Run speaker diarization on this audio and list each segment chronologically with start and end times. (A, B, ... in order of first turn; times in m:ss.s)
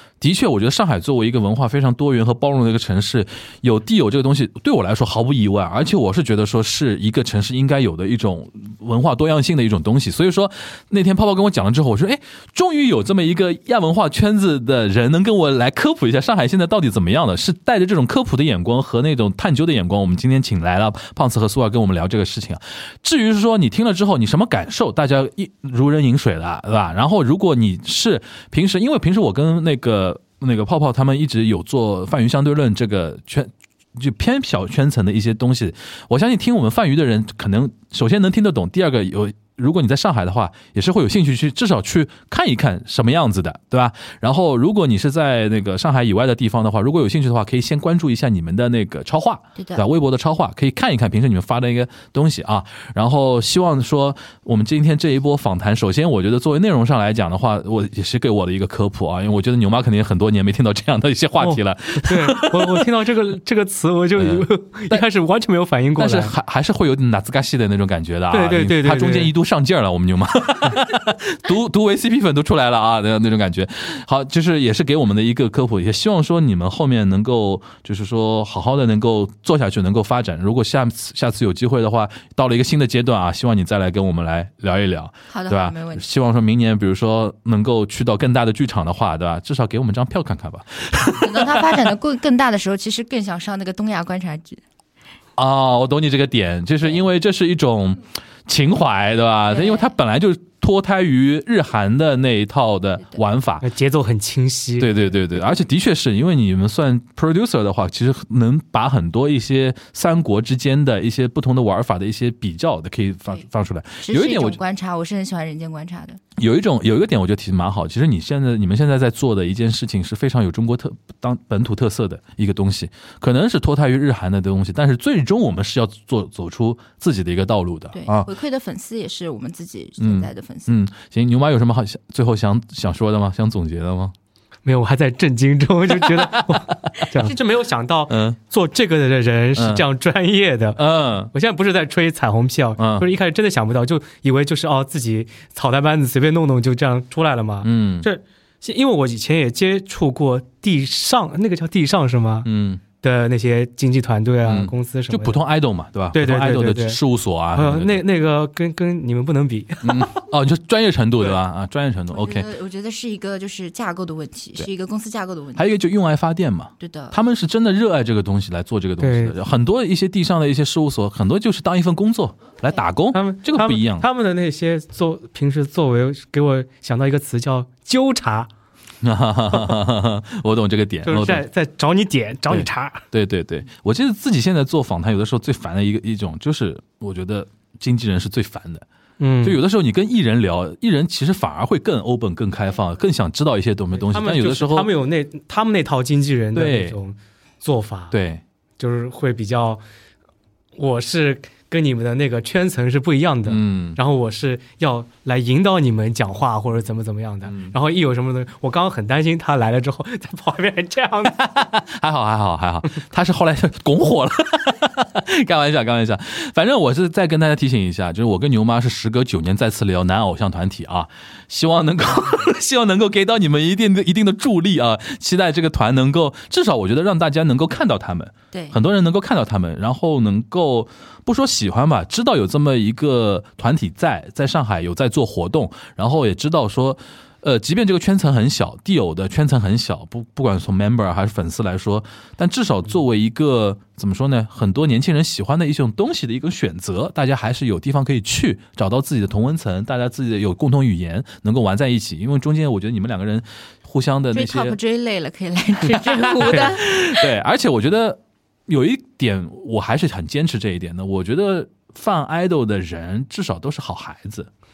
0:00.2-1:02.9 A
0:49.6-0:49.8 B
1:01.4-1:06.3 C
1:04.2-1:05.0 A
1:06.0-1:31.9 A
1:08.3-1:09.3 C
1:25.3-1:26.0 B
1:31.2-1:34.6 B
1:35.4-1:43.6 A
1:39.5-1:39.9 B
1:43.6-1:45.1 C
1:44.8-1:54.6 A
1:54.0-1:56.2 B
1:56.4-2:08.3 A
2:07.9-2:10.7 B
2:10.0-2:14.1 A
2:14.6-2:32.5 C
2:16.0-2:16.7 A
2:18.1-2:18.4 A
2:19.5-2:19.8 A
2:20.8-2:21.3 A
2:22.8-2:23.1 A
2:27.6-2:28.1 A
2:32.4-2:32.8 A
2:33.0-2:35.4 C
2:34.4-2:38.0 A
2:36.1-2:37.0 C
2:37.5-2:40.1 C
2:39.8-2:42.5 A
2:42.1-2:45.7 B
2:45.6-2:54.0 A
2:46.8-2:47.2 B
2:49.0-2:49.4 C
2:53.1-2:58.5 C
2:59.0-3:01.4 A
3:01.0-3:03.0 C
3:02.5-3:08.8 A
3:09.2-3:09.6 C
3:09.4-3:14.9 A
3:14.0-3:18.1 C
3:16.5-3:17.0 A
3:18.1-3:18.4 A
3:18.8-3:19.8 C
3:20.8-3:31.4 C
3:23.4-3:24.0 A
3:27.4-3:27.7 A
3:31.4-4:14.8 A
4:14.3-4:17.2 B
4:16.0-4:24.5 A